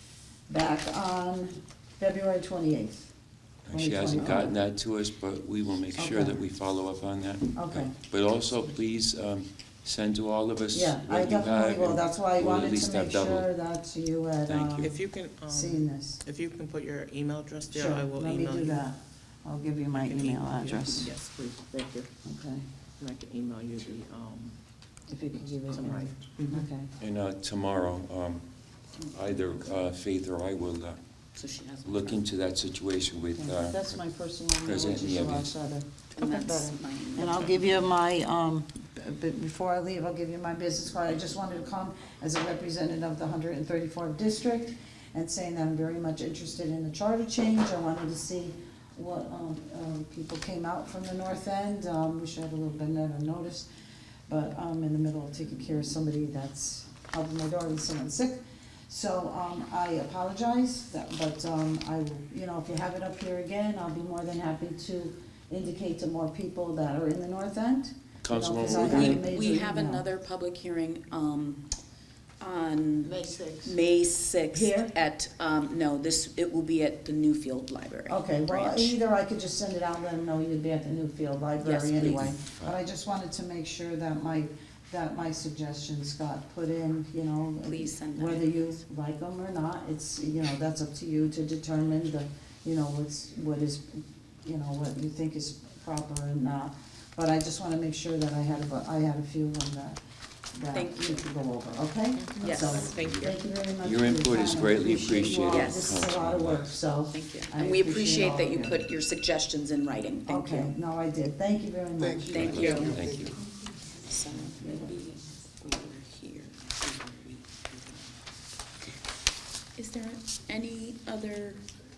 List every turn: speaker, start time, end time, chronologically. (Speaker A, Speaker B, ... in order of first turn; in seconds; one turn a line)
Speaker A: 0.5-3.1
Speaker B: 3.7-13.5
Speaker A: 3.7-4.5
Speaker A: 6.0-6.4
Speaker A: 7.5-7.9
Speaker A: 10.7-16.2
Speaker B: 14.5-14.9
Speaker C: 14.8-18.9
Speaker A: 17.7-21.1
Speaker C: 19.9-22.1
Speaker A: 22.2-22.7
Speaker C: 23.0-24.6
Speaker A: 25.1-26.9
Speaker C: 25.3-26.7
Speaker B: 27.0-31.0
Speaker D: 31.4-32.2
Speaker B: 31.8-34.0
Speaker A: 33.4-53.7
Speaker B: 34.6-35.5
Speaker D: 36.1-37.8
Speaker A: 54.3-70.1
Speaker B: 68.2-69.2
Speaker D: 68.6-71.7
Speaker D: 72.4-79.0
Speaker C: 73.1-73.7
Speaker A: 74.5-74.9
Speaker A: 78.1-100.0
Speaker D: 81.6-82.3
Speaker D: 87.6-88.8
Speaker A: 100.5-108.8
Speaker D: 100.7-101.3
Speaker C: 102.2-103.3
Speaker D: 102.4-103.0
Speaker B: 102.9-106.8
Speaker D: 105.5-106.1
Speaker D: 107.1-110.7
Speaker A: 110.3-113.1
Speaker D: 112.2-113.1
Speaker B: 112.4-113.3
Speaker C: 112.6-112.9
Speaker D: 114.0-117.4
Speaker A: 114.6-114.9
Speaker D: 119.8-121.6